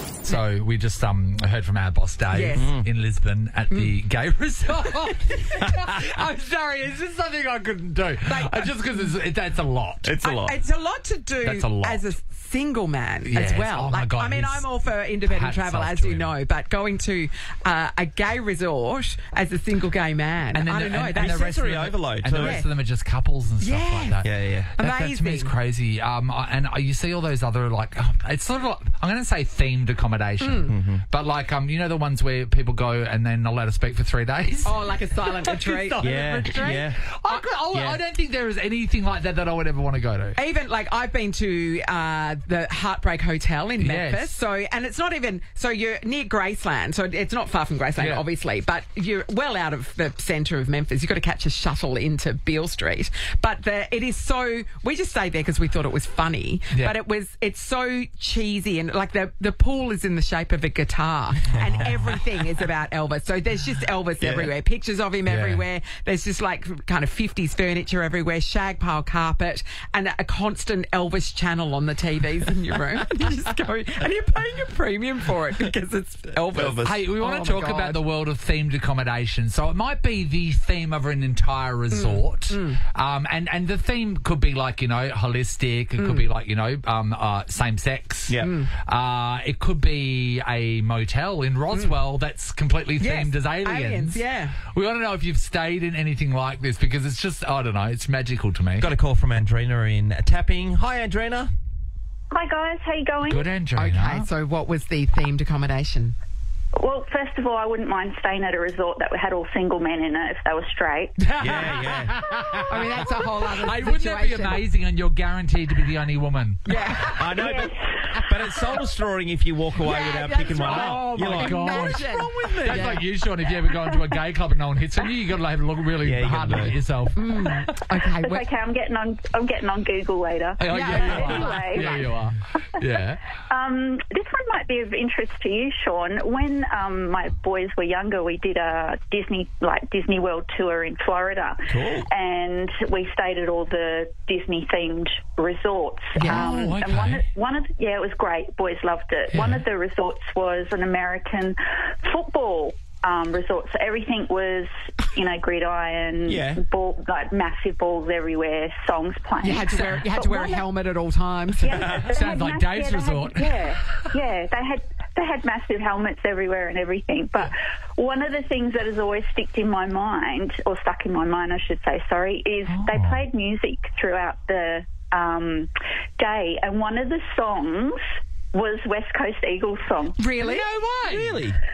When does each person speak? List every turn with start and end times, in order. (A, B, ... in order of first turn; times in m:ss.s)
0:00.2-0:10.2 A
0:02.3-0:02.7 B
0:02.6-0:02.8 C
0:08.2-0:09.1 B
0:10.0-0:10.6 C
0:10.2-0:21.6 B
0:11.4-0:12.1 A
0:13.2-0:16.3 A
0:20.5-0:40.4 A
0:21.0-0:22.6 C
0:22.3-0:22.7 B
0:23.6-0:24.2 B
0:24.2-0:24.7 C
0:24.8-0:25.5 B
0:30.4-0:30.7 B
0:30.7-0:31.0 C
0:34.6-0:37.4 B
0:36.0-0:37.0 C
0:37.7-0:38.0 C
0:40.4-1:18.0 B
0:43.8-0:44.4 A
0:48.0-0:48.2 A
1:04.2-1:04.5 C
1:05.2-1:05.6 A
1:16.4-1:17.0 C
1:16.8-1:38.9 A
1:21.9-1:22.8 B
1:26.0-1:26.3 B
1:28.4-1:28.7 B
1:33.0-1:34.6 B
1:38.8-1:41.5 C
1:42.3-1:43.5 D
1:43.3-1:44.3 A
1:43.8-1:46.2 B
1:46.8-1:51.2 D
1:51.2-1:57.0 A
1:51.4-1:52.2 C
1:52.7-1:54.7 B
1:56.7-1:57.7 B
1:57.2-2:03.0 C
1:57.4-1:58.2 D
1:59.8-2:03.0 B
2:00.5-2:07.7 A
2:06.0-2:06.8 C
2:07.1-2:08.5 B
2:08.2-2:12.1 D
2:10.6-2:13.2 A
2:10.7-2:12.1 B
2:13.5-2:40.7 D
2:21.7-2:22.1 C
2:26.2-2:27.2 A
2:26.2-2:26.5 B
2:29.3-2:29.6 A
2:36.2-2:36.6 C
2:39.4-2:42.0 B
2:41.6-3:00.3 D
2:42.0-2:43.7 A
2:52.7-2:53.2 A
3:00.2-3:00.8 B
3:00.4-3:01.4 A
3:01.0-3:01.6 C